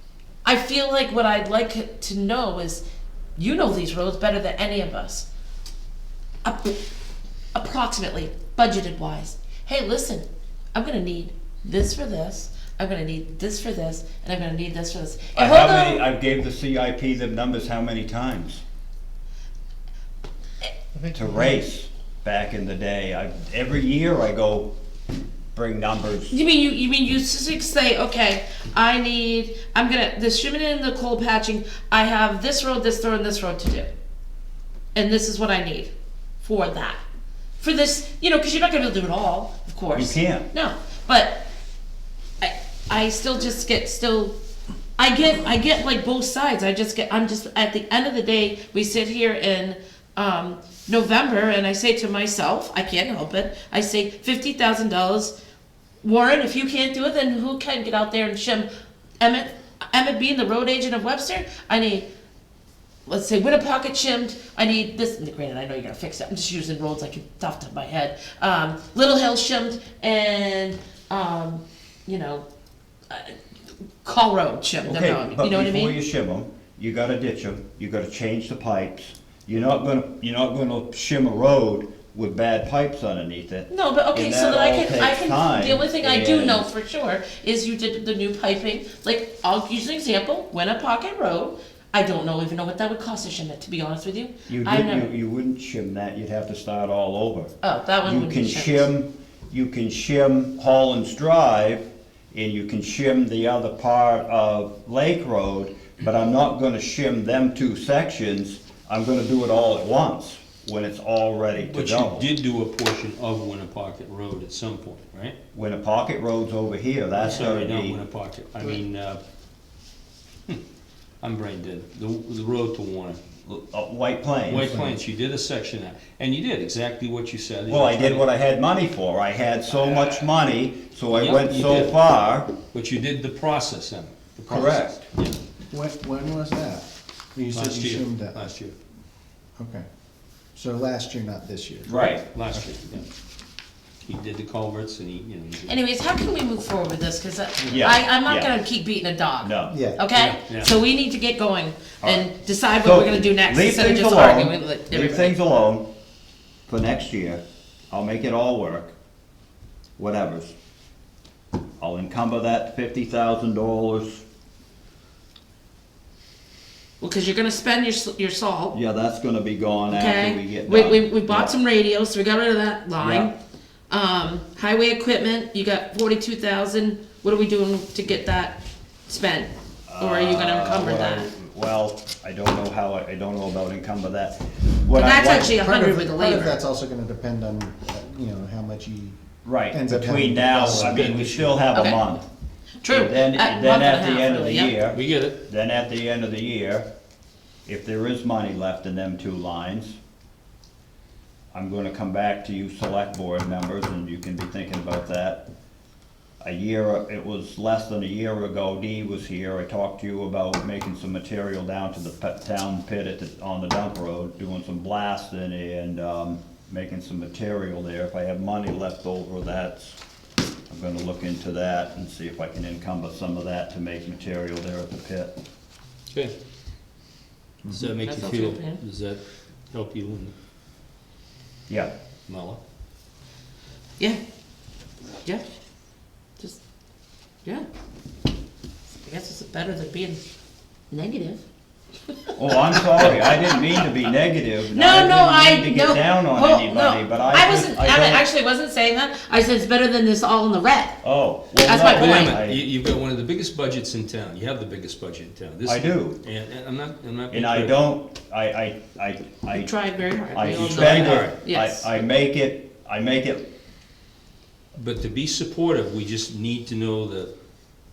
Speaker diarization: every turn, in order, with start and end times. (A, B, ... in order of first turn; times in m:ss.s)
0:00.4-0:02.8 A
0:03.4-0:05.2 A
0:06.4-0:06.8 A
0:07.5-0:16.0 A
0:15.3-0:18.6 B
0:20.9-0:24.7 B
0:25.5-0:26.4 B
0:26.3-0:33.9 A
0:34.9-0:37.0 A
0:37.6-0:41.4 A
0:39.9-0:40.5 B
0:42.4-0:44.3 A
0:45.0-0:55.3 A
0:56.0-0:58.7 A
0:59.2-1:02.0 A
1:03.0-1:12.4 A
1:13.1-1:13.4 A
1:14.0-1:16.0 A
1:14.8-1:26.6 B
1:23.7-1:35.1 A
1:34.5-1:37.5 B
1:37.6-1:38.9 A
1:38.0-1:52.3 B
1:51.6-1:55.4 C
1:55.5-1:58.0 B
1:57.2-1:59.2 C
2:01.2-2:03.2 C
2:03.4-2:04.8 B
2:04.5-2:08.2 C
2:04.6-2:04.9 D
2:07.7-2:12.5 B
2:09.7-2:10.3 C
2:11.1-2:11.9 C
2:12.7-2:15.4 C
2:14.5-2:15.0 B
2:15.7-2:18.4 D
2:17.5-2:18.7 C
2:19.6-2:19.8 D
2:20.5-2:22.0 D
2:21.9-2:22.2 B
2:21.9-2:23.0 C
2:24.0-2:25.7 C
2:25.6-2:35.3 A
2:27.7-2:28.5 B
2:29.4-2:29.7 B
2:29.7-2:30.0 D
2:30.1-2:30.7 C
2:32.0-2:32.3 B
2:32.8-2:35.9 B
2:36.7-2:38.9 B
2:40.0-2:40.5 B
2:41.8-2:44.2 B
2:47.0-2:48.8 A
2:48.7-2:51.5 B
2:49.9-2:53.3 A
2:53.0-2:53.3 B
2:53.9-3:01.3 A
2:59.9-3:05.5 B
3:04.9-3:06.6 A
3:05.5-3:09.2 D
3:09.4-3:12.2 B
3:09.7-3:11.2 D
3:10.6-3:11.6 C
3:11.7-3:12.0 A
3:12.8-3:14.8 A
3:12.9-3:16.8 B
3:14.9-3:15.4 C
3:17.6-3:20.0 B
3:21.5-3:25.4 B
3:26.4-3:40.0 B
3:40.7-3:45.3 B
3:47.7-3:50.3 C
3:48.0-3:48.8 A
3:52.3-3:52.6 C
3:58.9-4:00.2 A
4:00.9-4:01.4 A
4:02.3-4:03.8 A
4:02.4-4:08.2 B
4:03.0-4:03.2 C
4:04.7-4:11.0 A
4:11.0-4:12.6 B
4:11.6-4:12.4 A
4:11.9-4:17.8 C
4:15.6-4:16.2 B
4:17.3-4:19.7 B
4:19.5-4:21.9 A
4:20.3-4:23.4 B
4:20.4-4:21.4 C
4:24.7-4:27.3 C